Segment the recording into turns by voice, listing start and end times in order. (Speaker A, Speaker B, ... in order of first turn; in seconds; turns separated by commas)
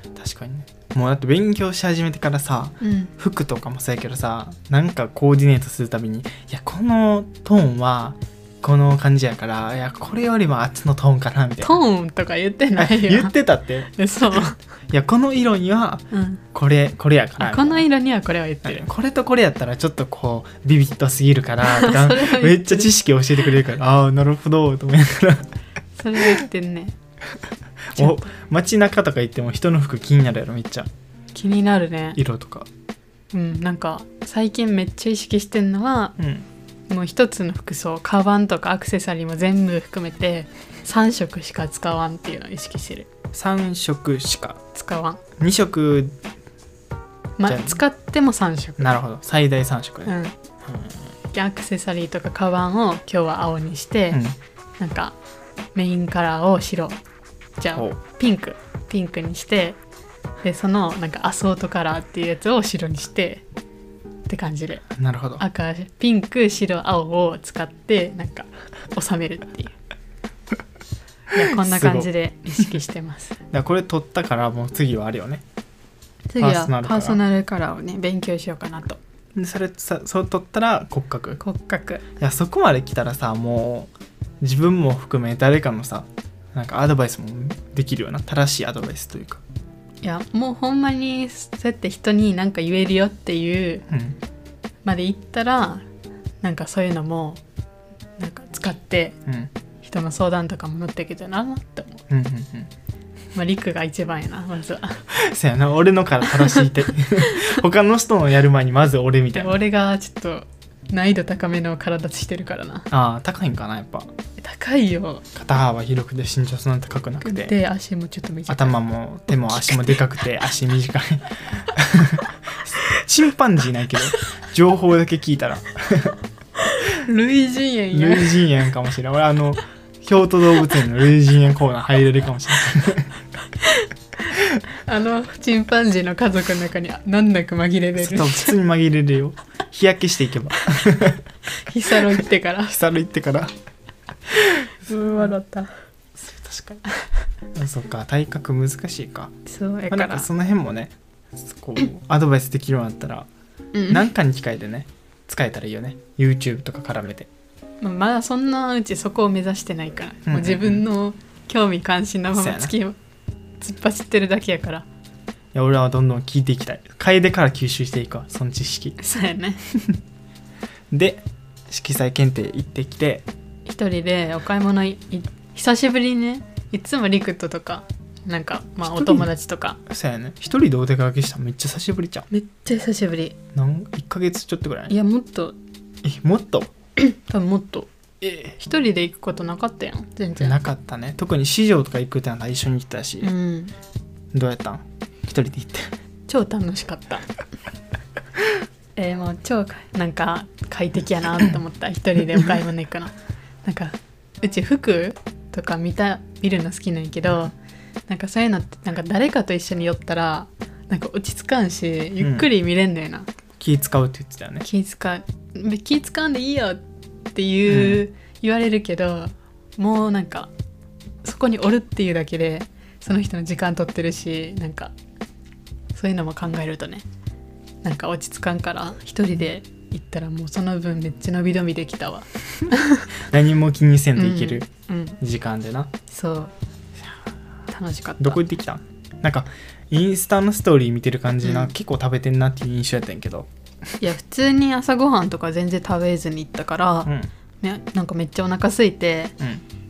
Speaker A: 0.1-11.8, Speaker B: 2.8-3.1, Speaker B: 11.6-13.4, Speaker A: 12.8-17.9, Speaker B: 13.9-14.6, Speaker B: 16.1-16.4, Speaker B: 17.4-18.8, Speaker A: 18.6-25.5, Speaker B: 21.6-22.9, Speaker B: 26.0-26.9, Speaker A: 27.9-30.9, Speaker B: 31.3-32.2, Speaker A: 32.1-32.7, Speaker B: 33.3-36.2, Speaker A: 36.2-36.4, Speaker B: 36.9-43.1, Speaker A: 43.3-44.6, Speaker B: 44.7-45.2, Speaker A: 45.4-46.1, Speaker B: 47.4-48.9, Speaker A: 47.5-47.8, Speaker A: 48.8-51.0, Speaker B: 50.0-50.3, Speaker B: 51.3-54.2, Speaker A: 54.1-54.4, Speaker B: 54.8-55.1, Speaker B: 55.7-57.0, Speaker B: 57.6-59.8, Speaker B: 60.4-63.4, Speaker B: 64.3-64.8, Speaker A: 65.0-65.4, Speaker B: 65.4-69.7, Speaker B: 71.3-73.3, Speaker A: 71.5-72.1, Speaker A: 73.5-75.4, Speaker B: 76.3-79.0, Speaker A: 76.4-77.2, Speaker A: 79.3-81.4, Speaker B: 81.4-82.0, Speaker A: 82.2-89.4, Speaker B: 90.0-93.8, Speaker A: 93.9-94.2, Speaker B: 94.8-95.9, Speaker B: 96.4-97.4, Speaker B: 98.2-99.2, Speaker B: 99.8-102.0, Speaker A: 102.1-102.7, Speaker B: 103.3-105.0, Speaker A: 105.1-109.6, Speaker B: 109.3-112.9, Speaker A: 112.9-114.1, Speaker B: 114.4-115.2, Speaker A: 115.3-117.5, Speaker B: 117.2-120.0, Speaker A: 118.5-126.2, Speaker B: 126.6-128.5, Speaker A: 127.9-133.2, Speaker B: 133.6-133.9, Speaker B: 134.8-138.6, Speaker A: 138.0-141.3, Speaker B: 141.6-142.8, Speaker A: 142.7-143.5, Speaker A: 144.4-145.2, Speaker B: 144.8-145.7, Speaker A: 146.2-146.8, Speaker A: 147.5-149.3, Speaker B: 149.4-150.3, Speaker A: 149.9-153.3, Speaker B: 153.7-154.1, Speaker A: 153.9-157.3, Speaker B: 157.8-163.0, Speaker A: 160.2-160.8, Speaker A: 162.3-162.7, Speaker B: 163.6-164.8, Speaker A: 165.5-169.0, Speaker B: 169.0-169.6, Speaker A: 170.9-173.2, Speaker B: 173.7-179.8, Speaker A: 178.8-179.3, Speaker A: 179.9-182.3, Speaker B: 182.3-183.4, Speaker A: 183.5-184.9, Speaker B: 184.9-185.6, Speaker A: 186.0-186.7, Speaker B: 187.0-187.9, Speaker A: 188.2-188.5, Speaker B: 188.6-190.6, Speaker A: 190.4-193.3, Speaker B: 193.2-193.7, Speaker A: 194.3-195.9, Speaker B: 196.3-197.3, Speaker B: 198.9-203.1, Speaker B: 203.6-207.5, Speaker B: 208.1-213.3, Speaker A: 212.2-212.4, Speaker A: 213.6-214.7, Speaker B: 214.6-216.8, Speaker B: 217.3-220.5, Speaker A: 217.7-218.0, Speaker B: 221.2-224.9, Speaker B: 225.9-227.0, Speaker B: 227.8-233.1, Speaker A: 233.3-234.7, Speaker B: 234.2-235.2, Speaker A: 235.2-235.9, Speaker B: 236.1-236.5, Speaker B: 237.7-238.4, Speaker A: 238.2-243.5, Speaker B: 241.4-241.7, Speaker B: 244.0-249.3